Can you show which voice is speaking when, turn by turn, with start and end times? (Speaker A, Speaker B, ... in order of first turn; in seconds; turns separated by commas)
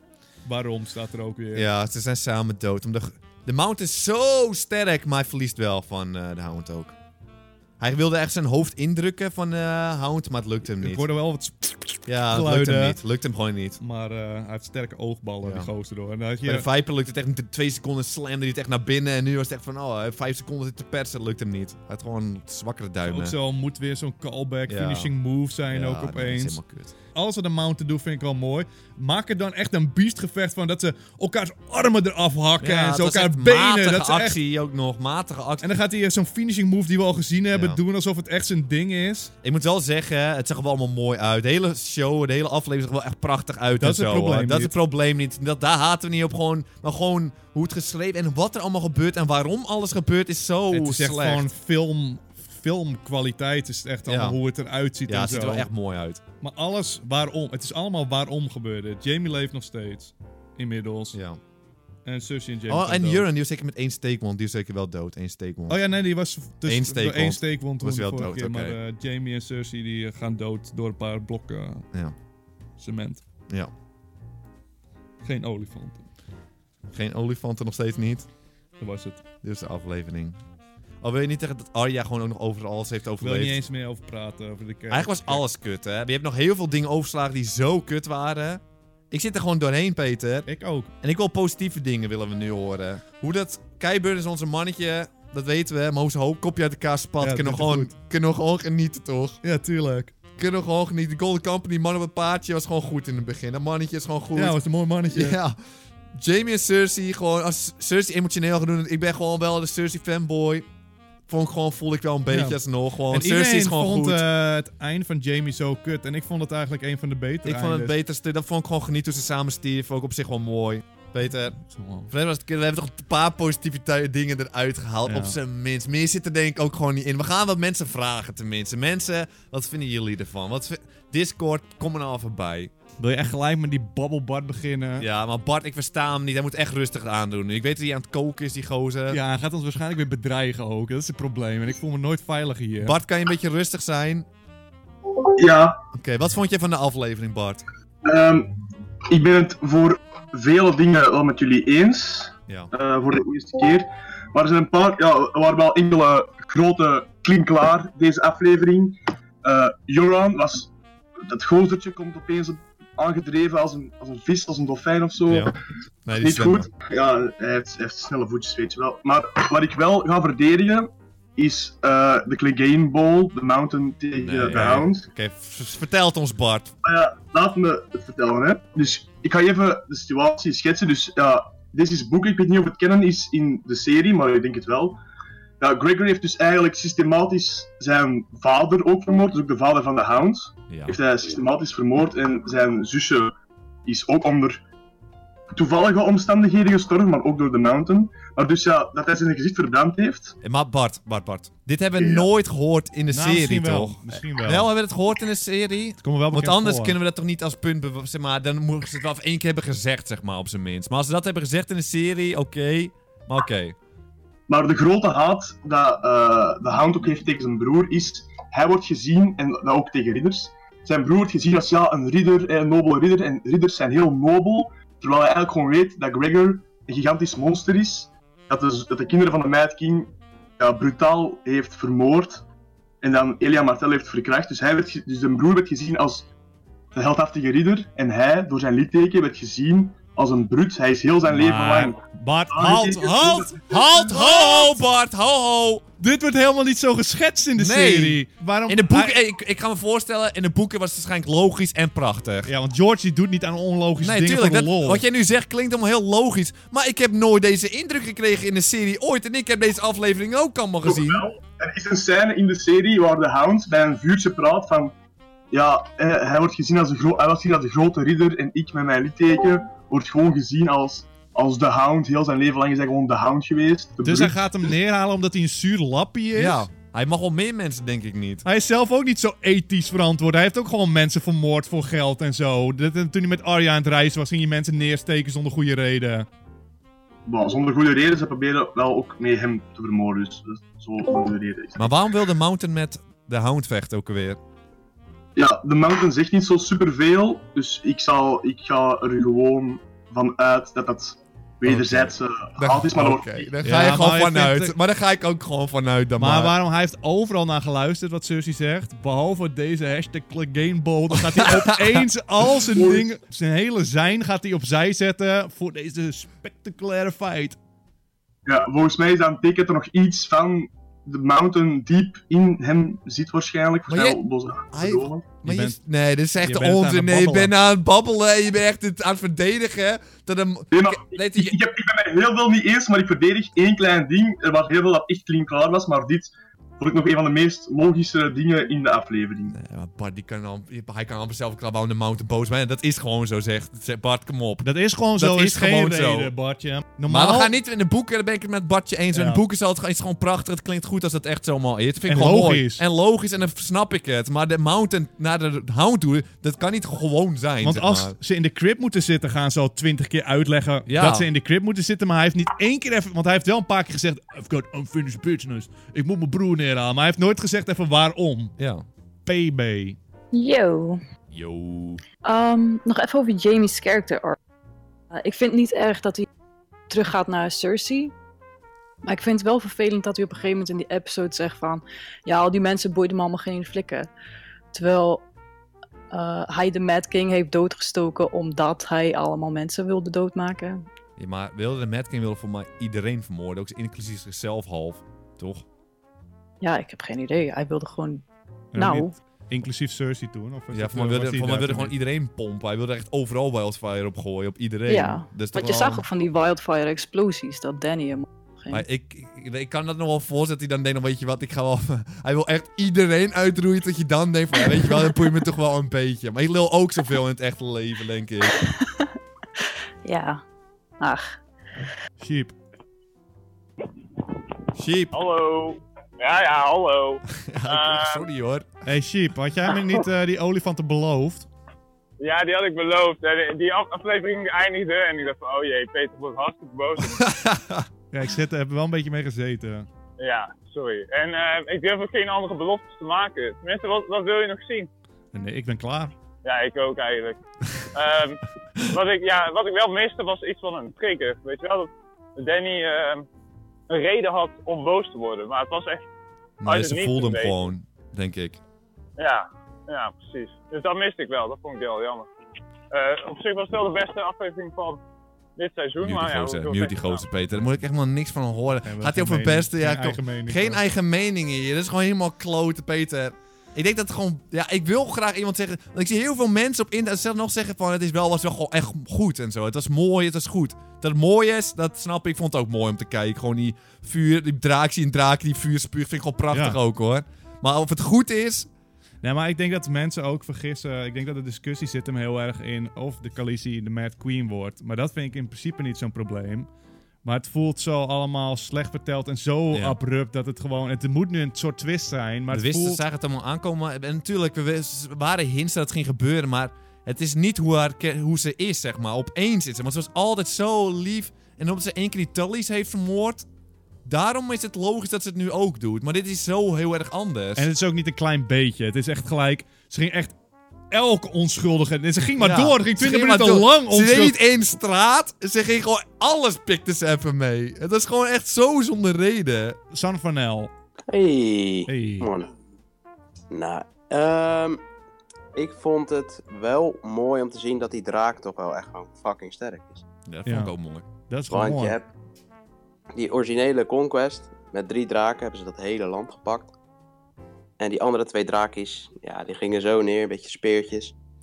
Speaker A: 0.4-1.7, Speaker B: 1.5-6.9, Speaker B: 7.8-11.0, Speaker A: 10.6-13.0, Speaker B: 12.1-13.8, Speaker A: 13.8-16.6, Speaker B: 15.4-15.7, Speaker B: 16.4-23.3, Speaker A: 23.0-26.6, Speaker B: 24.7-25.1, Speaker B: 25.7-26.9, Speaker A: 27.1-34.4, Speaker B: 32.6-35.7, Speaker A: 35.6-39.3, Speaker B: 37.5-37.8, Speaker B: 39.4-51.5, Speaker A: 43.8-44.7, Speaker A: 50.7-55.7, Speaker B: 54.0-54.4, Speaker B: 55.1-56.2, Speaker A: 56.4-61.2, Speaker B: 61.1-61.4, Speaker A: 62.0-63.2, Speaker B: 62.7-65.8, Speaker A: 65.7-71.9, Speaker B: 66.7-68.8, Speaker A: 72.8-73.2, Speaker A: 75.2-76.1, Speaker B: 76.9-78.3, Speaker A: 78.8-79.2, Speaker B: 79.4-80.4, Speaker B: 81.0-83.6, Speaker A: 83.2-85.4, Speaker B: 84.9-90.5, Speaker A: 90.5-90.9, Speaker B: 91.0-99.4, Speaker A: 97.2-97.9, Speaker A: 99.4-100.1, Speaker B: 100.4-105.6, Speaker A: 104.3-105.4, Speaker B: 106.1-110.7, Speaker B: 111.3-114.2, Speaker A: 112.3-118.0, Speaker B: 117.4-121.6, Speaker A: 121.6-122.1, Speaker B: 122.1-132.7, Speaker A: 125.0-125.4, Speaker A: 133.0-135.1, Speaker B: 135.0-139.2, Speaker A: 139.1-142.9, Speaker B: 142.8-144.3, Speaker C: 145.2-145.8, Speaker B: 145.9-147.6, Speaker C: 148.0-148.5, Speaker C: 149.1-165.5, Speaker B: 165.3-165.5, Speaker B: 166.1-166.7, Speaker C: 166.2-175.1, Speaker B: 174.2-176.7, Speaker C: 176.8-185.0, Speaker C: 185.6-193.3, Speaker B: 190.7-191.0, Speaker C: 193.8-194.6, Speaker C: 195.5-200.3, Speaker B: 200.4-213.8, Speaker C: 202.0-202.3, Speaker A: 203.1-204.7, Speaker A: 206.0-206.9, Speaker C: 214.5-232.4, Speaker C: 233.0-236.3, Speaker C: 236.9-243.8, Speaker A: 241.3-244.8, Speaker B: 243.7-245.8, Speaker A: 246.0-249.2, Speaker B: 247.6-252.5, Speaker A: 252.4-255.0, Speaker B: 254.0-261.2, Speaker C: 260.8-264.9, Speaker C: 265.5-274.4, Speaker A: 274.0-276.7, Speaker B: 276.3-278.4, Speaker A: 278.4-286.3, Speaker C: 287.2-292.0, Speaker B: 291.8-294.4, Speaker C: 295.4-303.6, Speaker B: 301.6-302.1, Speaker B: 302.6-306.5, Speaker A: 303.6-304.8, Speaker A: 306.2-317.6, Speaker B: 311.1-312.0, Speaker C: 312.8-313.1, Speaker C: 318.4-325.2, Speaker B: 323.9-324.2, Speaker B: 324.7-331.6, Speaker A: 325.4-325.8, Speaker A: 326.4-327.5, Speaker C: 330.7-339.6, Speaker B: 339.5-346.3, Speaker A: 344.6-347.5, Speaker B: 347.1-358.1, Speaker A: 349.1-349.4, Speaker A: 352.1-352.8, Speaker A: 357.6-368.5, Speaker B: 360.9-361.3, Speaker B: 368.6-368.8, Speaker A: 369.2-370.0, Speaker D: 370.3-371.0, Speaker B: 371.3-372.0, Speaker D: 372.2-374.4, Speaker D: 375.1-376.3, Speaker D: 376.9-378.1, Speaker D: 379.0-384.1, Speaker D: 384.7-385.2, Speaker D: 386.1-390.8, Speaker B: 391.2-395.6, Speaker D: 396.6-398.2, Speaker A: 398.7-402.0, Speaker D: 398.8-399.1, Speaker B: 400.7-406.0, Speaker D: 404.9-408.8, Speaker B: 408.7-418.7, Speaker D: 418.6-420.4, Speaker D: 421.0-421.4, Speaker A: 422.2-422.5, Speaker B: 424.7-425.1, Speaker E: 425.1-428.3, Speaker B: 427.3-428.7, Speaker A: 428.8-431.5, Speaker E: 432.2-437.2, Speaker B: 437.0-437.9, Speaker A: 438.1-439.9, Speaker E: 440.2-444.9, Speaker A: 445.3-446.1, Speaker E: 446.4-447.4, Speaker E: 447.9-453.2, Speaker E: 453.9-456.0, Speaker B: 456.6-458.6, Speaker E: 456.6-457.6, Speaker E: 459.2-462.3, Speaker E: 462.9-465.0, Speaker E: 465.6-467.2, Speaker B: 466.0-488.7, Speaker A: 468.8-470.8, Speaker A: 486.5-486.8, Speaker A: 489.2-496.7, Speaker A: 497.2-503.0, Speaker B: 499.7-499.9, Speaker B: 502.5-513.5, Speaker B: 514.0-517.7, Speaker A: 517.5-520.3, Speaker A: 520.9-524.4, Speaker B: 522.4-529.8, Speaker A: 529.9-530.7, Speaker F: 531.1-532.5, Speaker A: 531.9-532.3, Speaker F: 533.5-534.8, Speaker F: 535.5-540.0, Speaker B: 540.3-541.0, Speaker A: 540.5-540.7, Speaker A: 541.3-542.0, Speaker F: 541.5-542.1, Speaker F: 543.1-546.7, Speaker F: 547.8-551.1